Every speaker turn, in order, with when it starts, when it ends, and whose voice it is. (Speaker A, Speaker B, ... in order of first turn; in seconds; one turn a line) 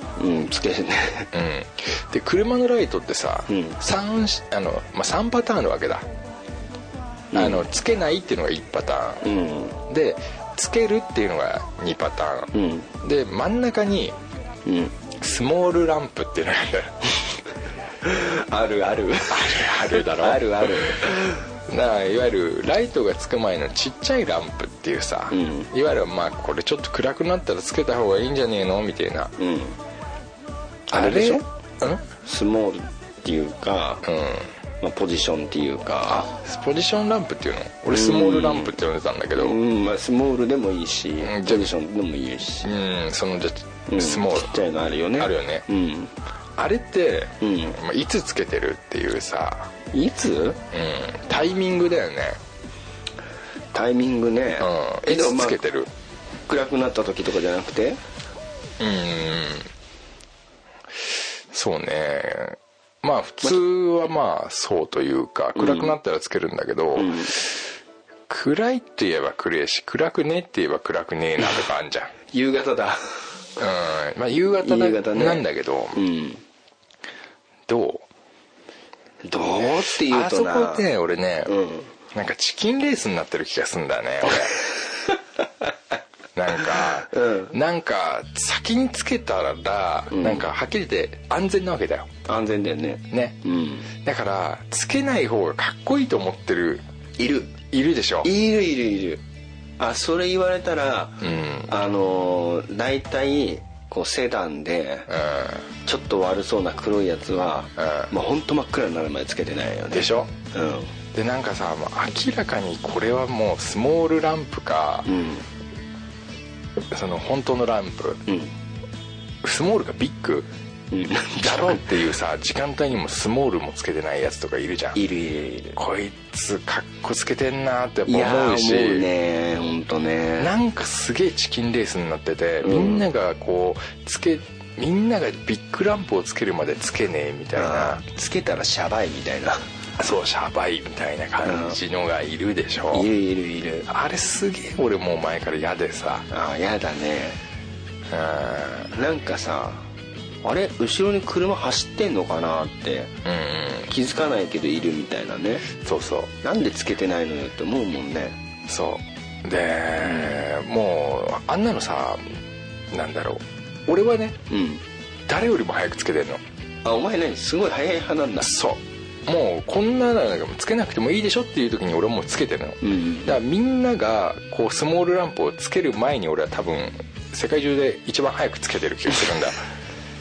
Speaker A: 0.2-1.3
Speaker B: 1.3-6.1
Speaker A: 3.5-3.8
Speaker A: 7.3-7.7
Speaker B: 7.3-9.2
Speaker A: 9.2-9.8
Speaker B: 9.9-14.2
Speaker A: 12.5-12.9
Speaker A: 14.7-15.0
Speaker B: 15.1-17.1
Speaker A: 18.0-21.4
Speaker B: 19.3-21.1
Speaker B: 21.7-29.4
Speaker A: 25.3-25.7
Speaker A: 29.4-29.8
Speaker A: 30.9-31.5
Speaker B: 30.9-32.1
Speaker A: 32.2-34.0
Speaker B: 34.0-34.5
Speaker A: 34.8-36.3
Speaker B: 36.1-39.6
Speaker A: 37.9-38.8
Speaker A: 39.4-42.7
Speaker B: 41.2-41.7
Speaker B: 42.6-44.5
Speaker A: 43.9-46.1
Speaker B: 45.2-45.7
Speaker B: 46.6-49.7
Speaker A: 47.4-47.8
Speaker A: 49.9-50.6
Speaker B: 50.7-52.4
Speaker A: 53.7-55.6
Speaker B: 54.6-55.9
Speaker A: 56.5-58.0
Speaker B: 58.8-59.7
Speaker B: 61.5-67.6
Speaker A: 65.5-66.0
Speaker A: 67.0-67.4
Speaker B: 68.3-72.1
Speaker A: 72.3-73.2
Speaker B: 73.6-76.0
Speaker A: 74.6-76.4
Speaker B: 77.7-78.1
Speaker A: 79.3-80.9
Speaker B: 79.9-81.5
Speaker A: 81.5-81.9
Speaker B: 82.1-84.6
Speaker B: 86.3-92.1
Speaker A: 86.7-87.5
Speaker A: 90.1-90.5
Speaker A: 92.3-93.9
Speaker B: 93.1-93.4
Speaker B: 94.0-96.8
Speaker A: 97.2-97.5
Speaker B: 97.6-98.3
Speaker A: 98.2-99.2
Speaker A: 99.8-105.1
Speaker B: 101.2-101.7
Speaker B: 105.1-105.7
Speaker A: 105.8-110.9
Speaker B: 107.8-108.1
Speaker B: 109.9-110.3
Speaker B: 111.1-115.1
Speaker A: 115.1-115.5
Speaker B: 116.9-118.2
Speaker A: 118.3-118.5
Speaker B: 119.4-120.5
Speaker A: 120.9-122.0
Speaker B: 121.4-125.0
Speaker A: 125.0-125.8
Speaker B: 125.8-129.1
Speaker A: 128.1-130.6
Speaker B: 130.4-138.0
Speaker A: 132.6-133.1
Speaker A: 137.6-139.7
Speaker B: 140.0-143.1
Speaker A: 141.4-141.8
Speaker A: 142.9-143.9
Speaker B: 143.9-146.3
Speaker A: 146.3-147.4
Speaker B: 148.1-148.9
Speaker A: 148.9-149.9
Speaker A: 150.4-153.1
Speaker B: 153.2-153.9
Speaker A: 153.9-155.7
Speaker B: 155.7-156.3
Speaker A: 156.4-158.4
Speaker B: 158.7-162.4
Speaker A: 160.0-160.4
Speaker B: 162.9-164.4
Speaker A: 164.5-164.8
Speaker B: 165.3-166.4
Speaker A: 166.8-168.5
Speaker B: 168.4-179.7
Speaker A: 172.8-173.4